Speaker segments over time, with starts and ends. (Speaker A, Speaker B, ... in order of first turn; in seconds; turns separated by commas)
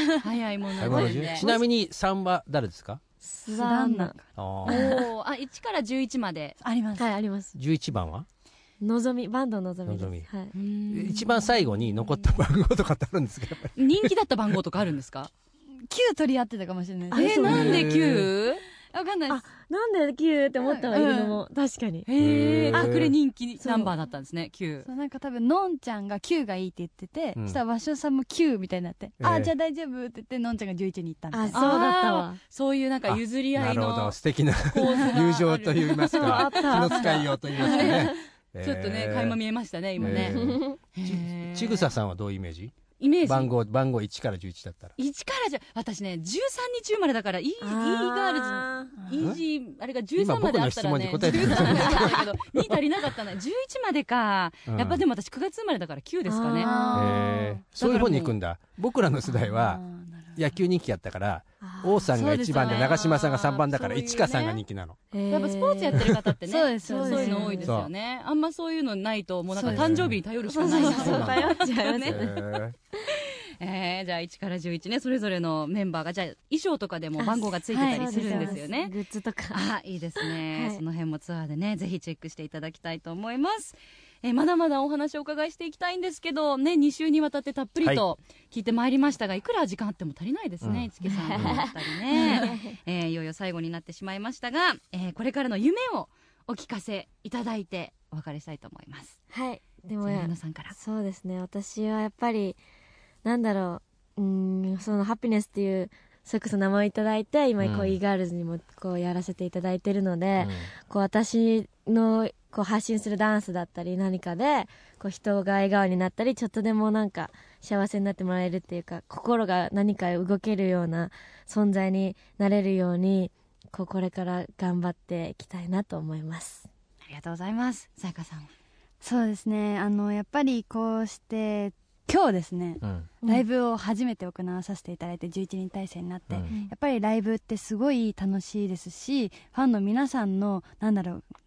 Speaker A: 0.2-1.5, Speaker B: 0.8-3.0, Speaker C: 0.9-1.6, Speaker C: 3.2-5.1, Speaker D: 3.5-4.3, Speaker B: 4.4-4.9, Speaker A: 4.6-6.6, Speaker D: 6.6-7.1, Speaker C: 6.9-7.6, Speaker B: 7.5-8.3, Speaker C: 8.8-10.5, Speaker B: 9.9-10.3, Speaker A: 10.5-11.7, Speaker B: 10.9-14.1, Speaker A: 13.8-15.3, Speaker D: 15.9-17.8, Speaker C: 17.1-17.9, Speaker A: 17.1-18.6, Speaker B: 17.4-18.3, Speaker D: 18.9-19.4, Speaker C: 19.3-22.1, Speaker D: 20.6-21.4, Speaker A: 22.1-24.9, Speaker B: 22.2-23.1, Speaker C: 23.6-23.9, Speaker D: 24.9-31.7, Speaker B: 29.2-29.5, Speaker C: 31.3-32.4, Speaker A: 31.5-40.4, Speaker B: 33.1-39.4, Speaker C: 36.1-38.1, Speaker D: 37.1-37.9, Speaker B: 40.0-44.9, Speaker C: 40.1-40.8, Speaker A: 40.9-41.9, Speaker A: 43.0-43.5, Speaker A: 45.0-57.2, Speaker C: 47.6-48.9, Speaker B: 50.1-52.8, Speaker B: 54.7-55.0, Speaker C: 56.2-57.6, Speaker D: 56.6-57.6, Speaker B: 56.9-59.8, Speaker A: 57.8-58.4, Speaker D: 59.2-60.6, Speaker B: 60.4-65.0, Speaker C: 61.6-62.1, Speaker A: 62.1-64.6, Speaker C: 65.1-66.1, Speaker A: 65.3-72.2, Speaker B: 65.9-66.3, Speaker D: 66.5-67.7, Speaker C: 66.8-67.7, Speaker B: 67.7-67.9, Speaker D: 69.5-70.1, Speaker B: 69.6-70.2, Speaker C: 70.4-72.5, Speaker D: 70.6-71.3, Speaker B: 70.8-72.7, Speaker A: 73.1-78.9, Speaker C: 77.2-80.8, Speaker D: 77.7-78.6, Speaker A: 79.5-99.2, Speaker B: 90.6-91.6, Speaker C: 91.1-92.8, Speaker D: 92.1-92.5, Speaker C: 99.3-102.6, Speaker A: 100.0-100.7, Speaker C: 103.2-126.7, Speaker B: 107.6-108.0, Speaker B: 110.4-110.7, Speaker A: 127.1-128.5, Speaker D: 129.0-141.2, Speaker B: 132.8-133.1